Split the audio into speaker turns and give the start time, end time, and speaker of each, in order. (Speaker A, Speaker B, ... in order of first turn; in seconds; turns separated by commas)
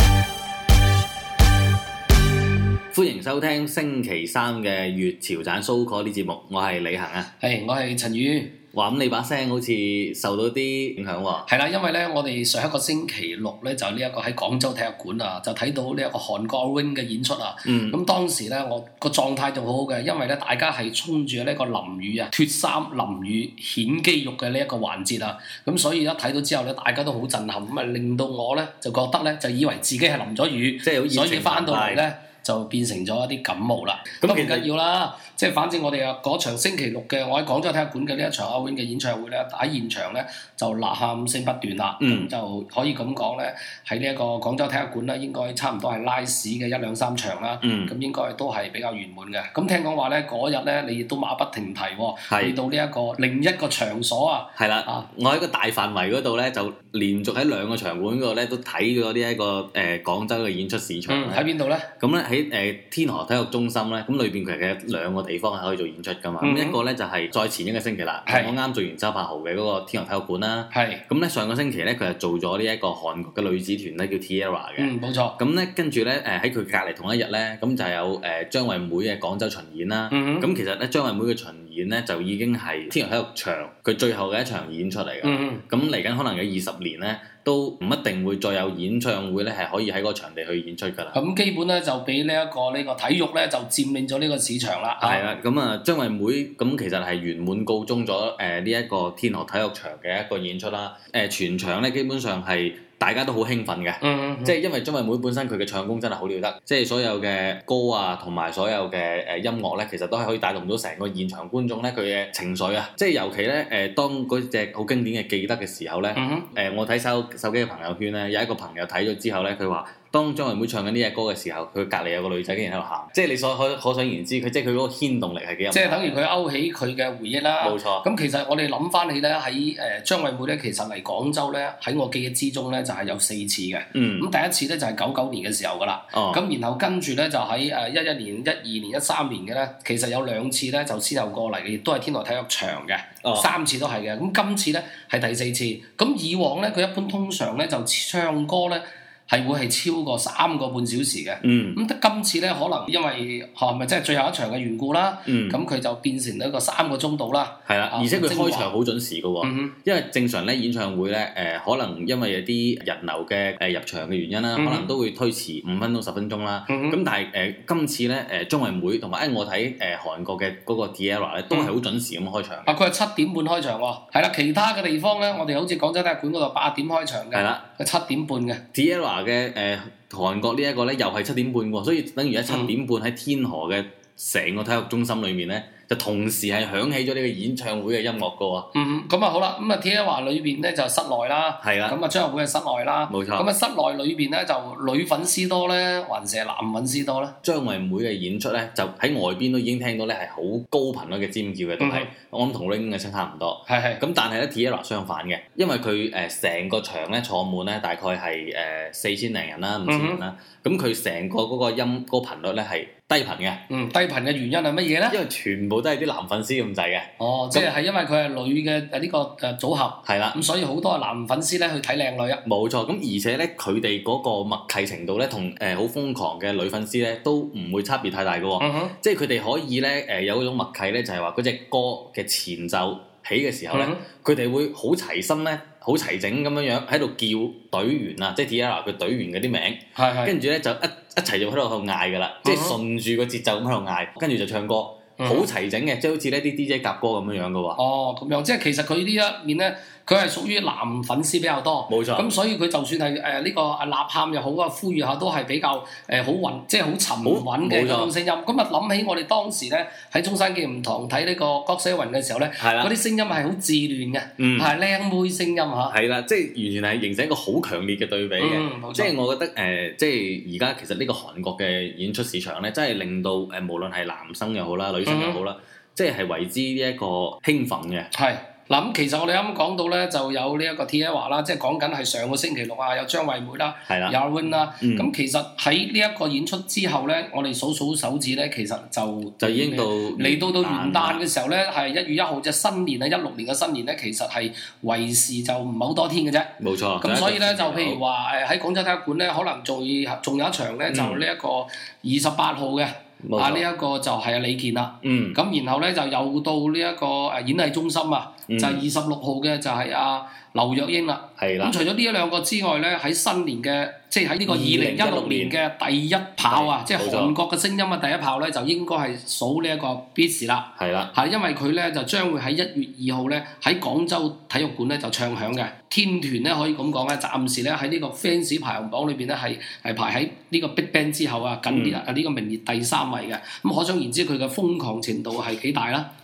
Speaker A: 2.9-7.3, Speaker B: 7.4-8.5, Speaker A: 8.7-11.5, Speaker B: 11.5-55.1, Speaker A: 17.6-18.0, Speaker A: 30.8-32.0, Speaker A: 34.2-34.7, Speaker A: 42.0-42.3, Speaker A: 47.6-47.9, Speaker A: 52.3-52.5, Speaker A: 54.6-61.4, Speaker B: 61.1-61.9, Speaker A: 62.0-91.2, Speaker B: 66.4-66.8, Speaker B: 68.3-68.5, Speaker B: 70.7-71.0, Speaker B: 74.8-75.4, Speaker B: 80.1-80.5, Speaker B: 85.2-85.6, Speaker B: 91.1-95.3, Speaker A: 95.0-126.2, Speaker B: 104.0-104.6, Speaker B: 116.1-116.5, Speaker B: 125.7-158.7, Speaker A: 127.6-128.0, Speaker A: 133.9-134.3, Speaker A: 136.1-136.4, Speaker A: 143.2-143.5, Speaker A: 151.4-151.8, Speaker A: 155.2-155.6, Speaker A: 157.7-172.7, Speaker B: 159.4-159.7, Speaker B: 164.6-164.9, Speaker B: 166.7-167.0, Speaker B: 172.7-178.6, Speaker A: 177.3-177.6, Speaker A: 178.7-188.7, Speaker B: 182.5-182.7, Speaker B: 188.7-197.3, Speaker A: 191.6-192.0, Speaker A: 193.1-193.5, Speaker A: 197.4-213.6, Speaker B: 201.8-202.1, Speaker B: 203.7-204.0, Speaker B: 209.9-210.2, Speaker B: 213.7-215.2, Speaker A: 215.1-217.7, Speaker B: 217.2-222.4, Speaker A: 220.1-220.4, Speaker A: 222.4-247.8, Speaker B: 228.6-228.9, Speaker B: 233.7-234.0, Speaker B: 239.9-240.3, Speaker B: 242.4-242.8, Speaker B: 245.2-245.5, Speaker B: 247.7-265.9, Speaker A: 251.9-252.3, Speaker A: 257.2-258.1, Speaker A: 262.6-262.9, Speaker A: 264.4-264.7, Speaker A: 265.9-278.1, Speaker B: 268.4-269.1, Speaker B: 275.0-275.4, Speaker B: 278.1-336.1, Speaker A: 283.9-284.1, Speaker A: 284.8-285.1, Speaker A: 289.4-291.2, Speaker A: 296.6-298.0, Speaker A: 300.9-301.2, Speaker A: 303.2-303.6, Speaker A: 305.0-305.4, Speaker A: 308.5-308.8, Speaker A: 311.4-311.7, Speaker A: 314.4-315.6, Speaker A: 316.4-317.4, Speaker A: 320.8-321.1, Speaker A: 331.7-332.0